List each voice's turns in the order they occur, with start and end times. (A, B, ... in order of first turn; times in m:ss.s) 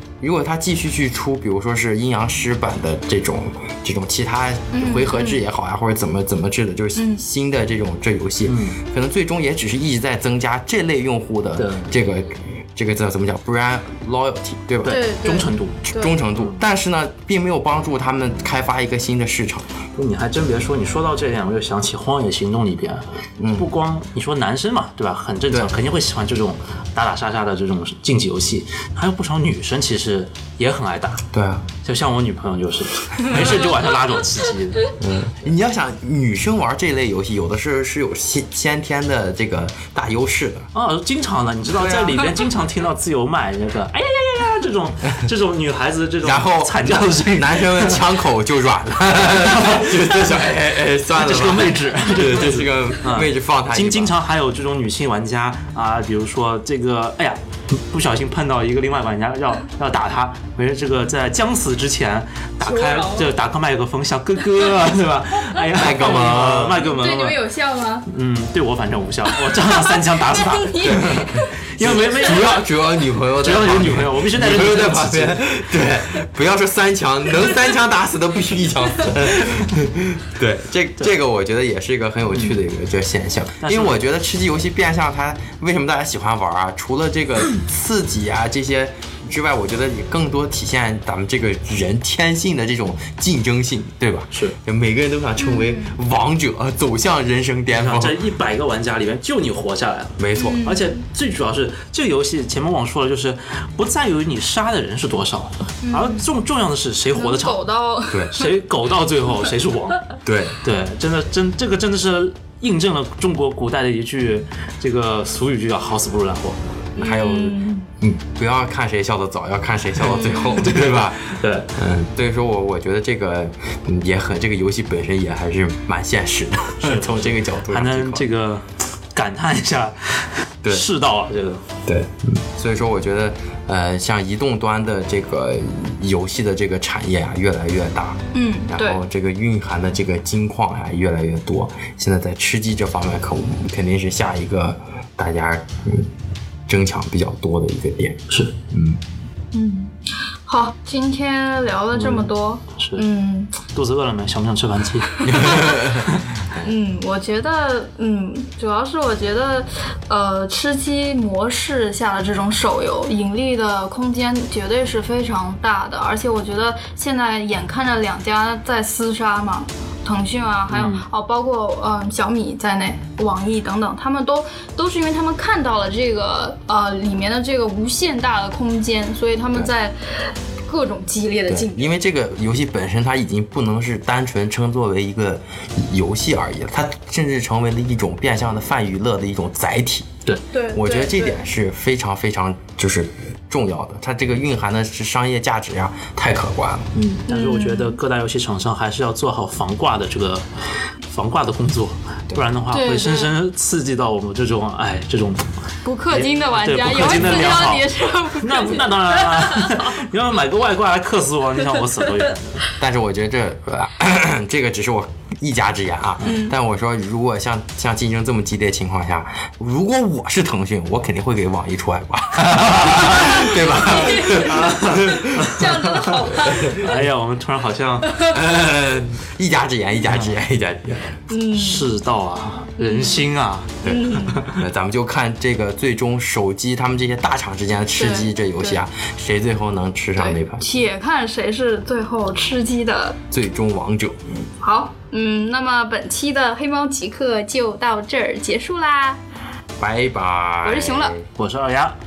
0:00.2-0:15.0 A
0:04.7-0:05.4 B
0:06.9-0:07.2 B
0:08.4-0:08.8 C
0:11.6-0:11.9 C
0:14.8-0:15.8 C
0:14.8-0:16.2 B
0:15.9-0:19.7 A
0:16.3-0:16.6 C
0:20.0-0:31.2 C
0:23.4-0:23.7 A
0:31.3-0:31.7 A
0:31.8-0:34.9 C
0:35.0-0:40.7 A
0:40.7-0:48.2 C
0:41.8-0:42.2 A
0:46.2-0:54.1 A
0:49.2-0:50.3 C
0:51.2-1:07.4 C
1:02.6-1:03.3 B
1:05.7-1:06.8 A
1:06.8-1:08.0 B
1:08.1-1:12.6 C
1:09.3-1:12.6 B
1:10.8-1:38.2 A
1:13.4-1:15.5 C
1:22.3-1:22.6 C
1:23.6-1:24.0 C
1:35.4-1:35.9 B
1:37.7-1:47.6 C
1:40.2-1:40.6 A
1:40.4-1:40.9 B
1:45.8-1:46.3 B
1:47.1-1:48.5 B
1:48.3-1:50.1 C
1:50.2-1:50.6 A
1:50.6-1:56.6 C
1:56.9-2:08.2 A
1:57.0-1:57.9 B
2:00.1-2:01.7 C
2:00.1-2:00.6 B
2:06.8-2:11.6 C
2:11.9-2:26.1 A
2:18.3-2:19.0 B
2:26.7-2:29.0 A
2:28.3-2:28.6 C
2:29.5-2:29.9 B
2:30.4-2:33.6 B
2:31.9-2:33.0 C
2:33.6-2:35.3 C
2:35.2-2:35.8 B
2:35.2-2:36.6 A
2:36.6-3:01.9 B
2:50.7-2:51.0 C
3:01.5-3:10.2 A
3:10.5-3:11.4 B
3:10.7-3:16.9 A
3:16.9-3:20.4 C
3:17.3-3:18.0 B
3:21.1-3:25.5 C
3:22.4-3:23.3 B
3:25.8-3:30.0 B
3:26.1-3:32.6 C
3:32.8-3:45.6 A
3:36.2-3:36.5 B
3:42.6-3:46.2 C
3:43.1-3:47.0 B
3:46.4-3:47.0 A
3:46.7-3:48.1 C
3:48.3-3:51.2 A
3:50.1-3:50.4 C
3:51.3-3:51.8 B
3:51.5-3:54.6 C
3:52.8-3:53.2 B
3:53.8-3:54.4 B
3:53.8-4:00.6 A
3:58.0-3:58.8 B
4:00.2-4:03.2 B
4:03.3-4:04.2 A
4:04.6-4:09.2 B
4:09.8-4:11.3 A
4:10.6-4:11.1 B
4:11.4-4:11.9 C